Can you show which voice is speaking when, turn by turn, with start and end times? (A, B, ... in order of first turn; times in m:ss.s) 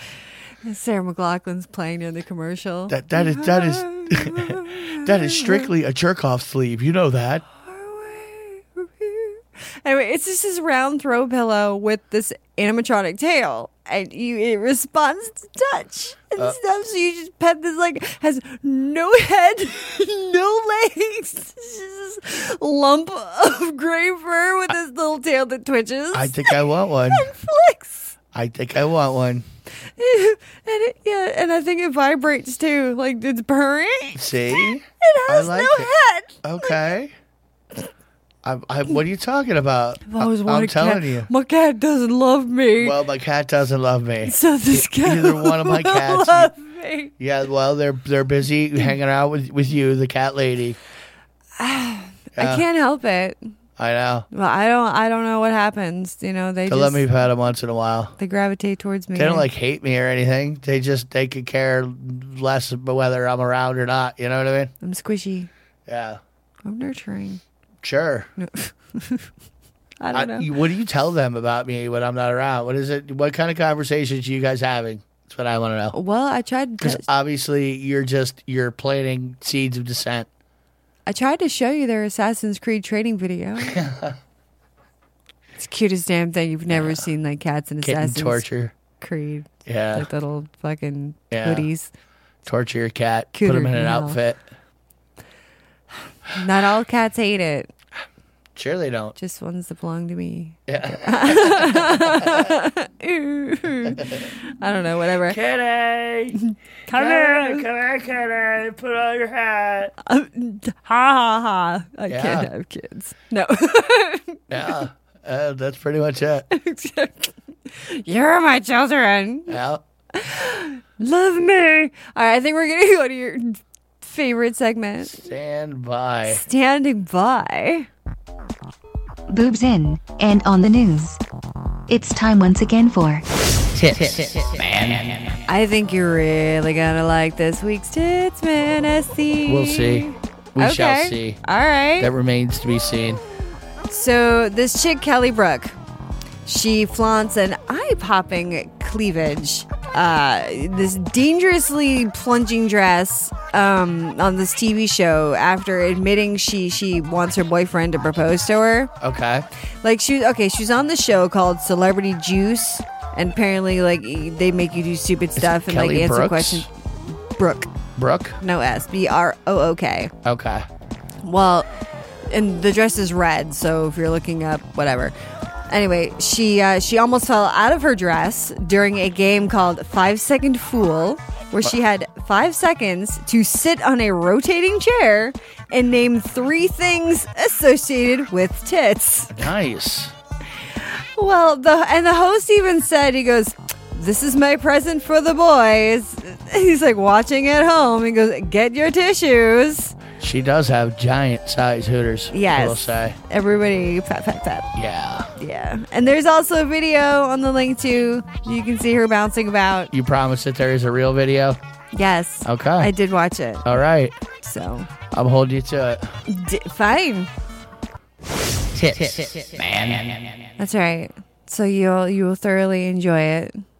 0:00.6-0:05.7 A
0:02.9-0:07.4 B
0:07.5-0:26.6 A
0:26.1-0:27.3 B
0:27.1-0:28.1 A
0:28.3-0:29.5 B
0:30.0-0:36.8 A
0:34.2-0:35.9 B
0:36.4-0:37.1 B
0:38.4-0:41.3 B
0:40.0-0:43.0 A
0:42.8-0:46.5 B
0:44.2-0:47.1 A
0:47.2-0:50.8 B
0:51.6-0:53.4 A
0:52.4-0:52.6 B
0:53.8-0:54.3 B
0:54.3-0:57.0 A
0:56.7-0:58.2 B
0:58.2-0:59.5 A
0:59.2-1:04.7 B
1:04.8-1:05.5 A
1:05.9-1:06.2 B
1:06.6-1:07.4 A
1:07.8-1:08.3 B
1:08.4-1:09.3 A
1:10.0-1:10.5 A
1:10.1-1:16.0 B
1:15.9-1:17.1 A
1:16.8-1:20.3 B
1:21.1-1:23.8 A
1:23.6-1:24.2 B
1:25.6-1:28.4 A
1:26.7-1:27.1 B
1:27.8-1:28.7 B
1:29.0-1:31.9 A
1:29.7-1:30.1 B
1:31.3-1:31.7 B
1:32.5-1:34.4 B
1:33.3-1:34.2 A
1:36.3-1:37.7 A
1:38.6-1:39.1 B
1:39.2-1:45.4 A
1:40.7-1:42.5 B
1:43.9-1:44.2 B
1:45.2-1:46.4 B
1:46.5-1:47.6 A
1:46.9-1:49.9 B
1:50.1-1:54.8 A
1:52.1-1:52.5 B
1:54.5-1:56.5 B
1:56.5-1:59.6 A
1:59.5-1:59.8 B
2:00.1-2:05.2 A
2:05.0-2:06.4 B
2:06.3-2:07.9 A
2:09.3-2:11.2 C
2:11.9-2:13.2 C
2:13.8-2:14.1 C
2:14.4-2:15.1 B
2:15.5-2:22.1 A
2:19.5-2:21.4 B
2:22.0-2:23.2 B
2:23.9-2:25.8 A
2:26.4-2:38.9 A
2:39.0-2:39.5 B
2:39.8-2:46.7 A
2:45.4-2:46.7 B
2:47.4-2:47.7 A
2:48.0-2:48.4 B
2:48.4-2:50.1 A
2:50.2-2:50.7 B
2:51.2-2:51.7 A
2:52.3-2:55.1 A
2:55.7-3:09.4 A
3:09.3-3:10.1 B
3:10.8-3:20.0 A
3:20.2-3:23.2 B
3:22.3-3:24.7 A
3:24.8-3:25.3 B
3:25.4-3:29.9 A
3:29.9-3:31.6 B
3:31.9-3:33.7 A
3:32.4-3:32.9 B
3:33.6-3:34.2 B
3:34.4-3:34.9 A
3:35.1-3:36.1 B
3:36.3-3:37.3 A
3:38.8-3:40.3 B
3:40.6-3:43.6 A